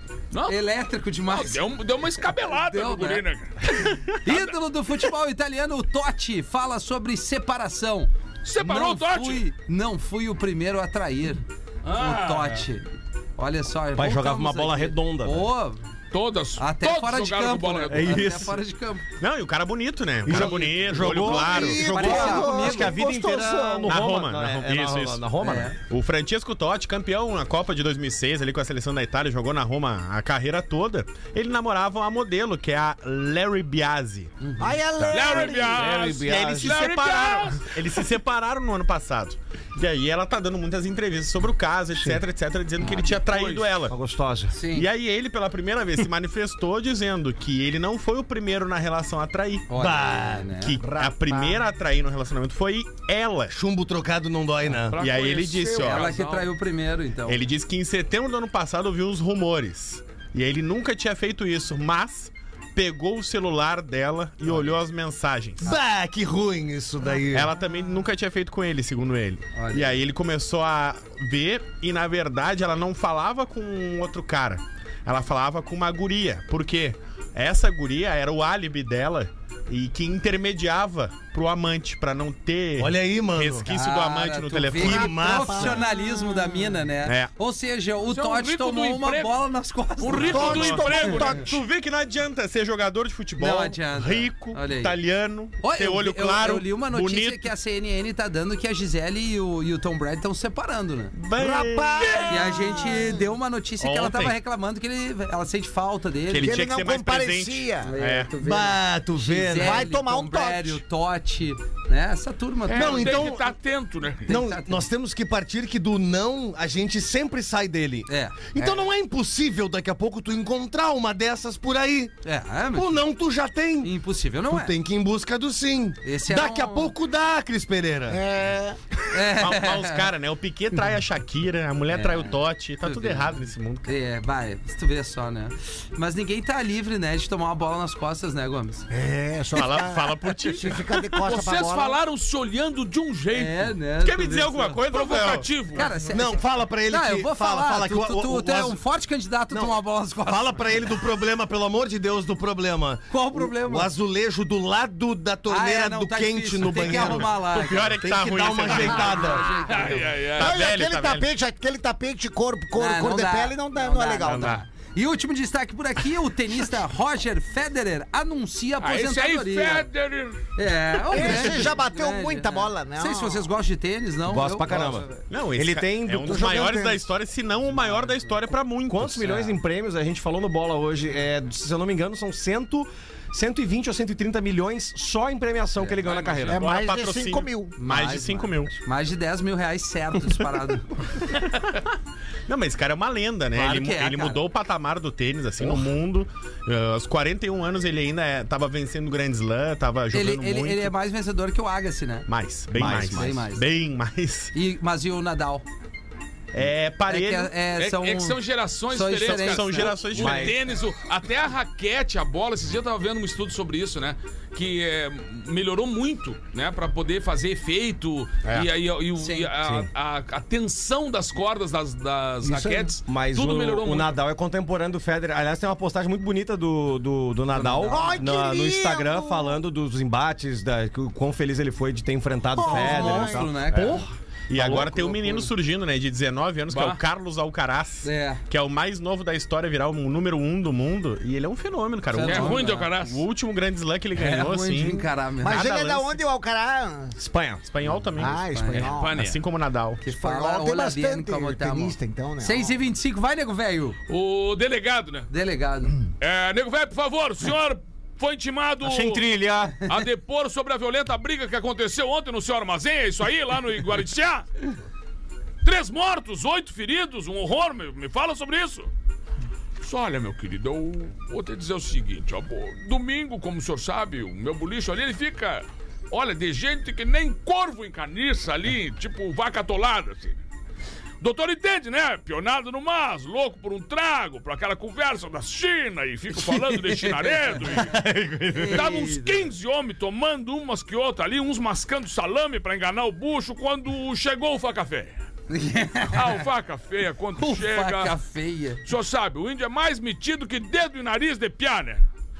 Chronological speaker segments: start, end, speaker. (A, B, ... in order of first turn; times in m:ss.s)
0:00.3-0:00.6 A
0:00.4-0:01.6 B
0:01.2-0:04.5 A
0:02.6-0:03.2 B
0:04.2-0:15.8 B
0:08.4-0:09.4 A
0:11.8-0:12.6 A
0:13.9-0:15.5 C
0:16.1-0:18.2 A
0:16.6-0:19.0 B
0:17.9-0:18.6 C
0:19.2-0:22.1 D
0:20.2-0:25.8 C
0:20.3-0:20.6 B
0:21.1-0:24.0 E
0:21.6-0:23.0 B
0:23.8-0:25.2 D
0:25.4-0:25.8 B
0:25.8-0:34.3 D
0:34.4-0:34.7 B
0:34.6-0:36.0 E
0:35.1-0:37.7 A
0:35.2-0:36.7 C
0:36.0-0:44.0 D
0:42.9-0:43.7 A
0:43.9-0:44.5 C
0:44.5-0:44.9 B
0:44.7-0:49.7 D
0:49.7-0:50.8 B
0:49.7-0:50.6 C
0:50.6-0:53.5 D
0:50.8-0:51.6 E
0:53.5-0:55.0 C
0:54.9-0:56.5 A
0:55.0-0:56.1 D
0:55.8-0:57.4 B
0:57.2-1:05.7 D
1:05.6-1:07.5 C
1:07.3-1:25.1 D
1:09.5-1:10.0 B
1:22.8-1:23.7 C
1:23.7-1:31.2 B
1:24.8-1:26.7 E
1:24.9-1:25.7 C
1:27.0-1:27.3 D
1:28.1-1:29.4 A
1:30.0-1:31.5 A
1:30.1-1:31.6 E
1:30.2-1:37.5 D
1:33.4-1:35.0 B
1:35.6-1:41.1 B
1:41.1-1:42.5 D
1:41.3-1:43.2 E
1:42.3-1:46.6 B
1:43.8-1:44.3 D
1:46.3-1:48.3 D
1:46.4-1:47.9 E
1:47.8-1:53.3 B
1:48.4-1:49.8 C
1:49.6-1:50.8 E
1:52.7-1:54.3 A
1:52.7-1:53.5 C
1:54.2-1:54.9 B
1:54.3-2:02.1 C
1:58.1-1:58.9 B
2:02.2-2:03.0 B
2:02.7-2:03.9 C
2:03.8-2:04.7 B
2:04.5-2:08.2 C
2:06.0-2:06.9 B
2:08.1-2:08.8 E
2:09.1-2:10.1 B
2:09.1-2:13.9 D
2:11.9-2:18.9 B
2:18.9-2:22.0 E
2:19.5-2:21.1 D
2:21.2-2:23.7 A
2:23.3-2:24.8 B
2:24.0-2:25.5 D
2:24.9-2:25.9 A
2:25.7-2:30.6 B
2:26.1-2:28.8 C
2:29.5-2:37.3 C
2:33.1-2:33.9 B
2:35.5-2:38.0 B
2:36.6-2:39.4 D
2:38.0-2:39.5 C
2:38.6-2:40.1 B
2:39.7-2:40.6 A
2:40.3-2:41.3 D
2:40.4-2:44.6 E
2:42.8-2:49.9 B
2:44.3-2:44.6 D
2:48.8-2:50.4 A
2:50.6-2:55.1 B
2:51.1-2:53.5 E
2:54.3-2:56.7 C
2:54.7-2:59.3 D
2:56.2-2:57.0 E
2:57.8-2:58.2 B
2:58.9-3:06.6 C
2:59.2-2:59.6 B
3:06.0-3:06.6 A
3:06.5-3:07.8 E
3:06.5-3:08.7 D
3:07.8-3:11.0 B
3:11.4-3:11.7 D
3:12.5-3:20.9 D
3:13.5-3:14.4 B
3:20.1-3:22.3 B
3:22.3-3:24.5 D
3:22.7-3:23.4 C
3:22.8-3:23.6 B
3:24.5-3:25.6 B
3:26.5-3:27.5 D
3:27.1-3:28.4 B
3:27.7-3:44.2 A
3:28.9-3:30.3 B
3:29.2-3:30.6 D
3:30.2-3:30.6 C
3:38.4-3:38.7 D
3:39.2-3:39.6 B
3:42.4-3:42.9 E
3:43.0-3:54.0 C
3:47.5-3:48.3 B
3:47.9-3:49.6 E
3:52.6-3:53.5 E
3:52.6-3:54.1 B
3:53.7-4:06.2 D
3:54.6-3:55.3 C
3:56.7-3:57.0 A
3:58.0-3:58.4 B
4:02.1-4:02.9 B
4:02.2-4:03.2 A
4:04.1-4:05.6 B
4:05.4-4:07.2 E
4:07.2-4:07.6 C
4:07.6-4:08.4 D
4:08.2-4:09.1 E
4:08.5-4:08.9 B
4:08.7-4:09.4 A
4:09.1-4:10.0 D
4:10.0-4:14.0 B
4:10.1-4:12.8 E
4:14.1-4:15.3 A
4:15.3-4:16.0 B
4:16.2-4:24.5 A
4:18.8-4:19.9 C
4:25.6-4:28.9 A
4:29.8-4:40.4 A
4:41.2-4:47.9 A
4:46.4-4:47.8 B
4:47.7-4:48.8 C
4:48.5-4:49.5 B
4:48.7-4:55.2 A
4:55.5-4:56.4 B
4:56.1-4:58.2 A
4:57.4-4:58.8 B
4:58.8-5:02.0 A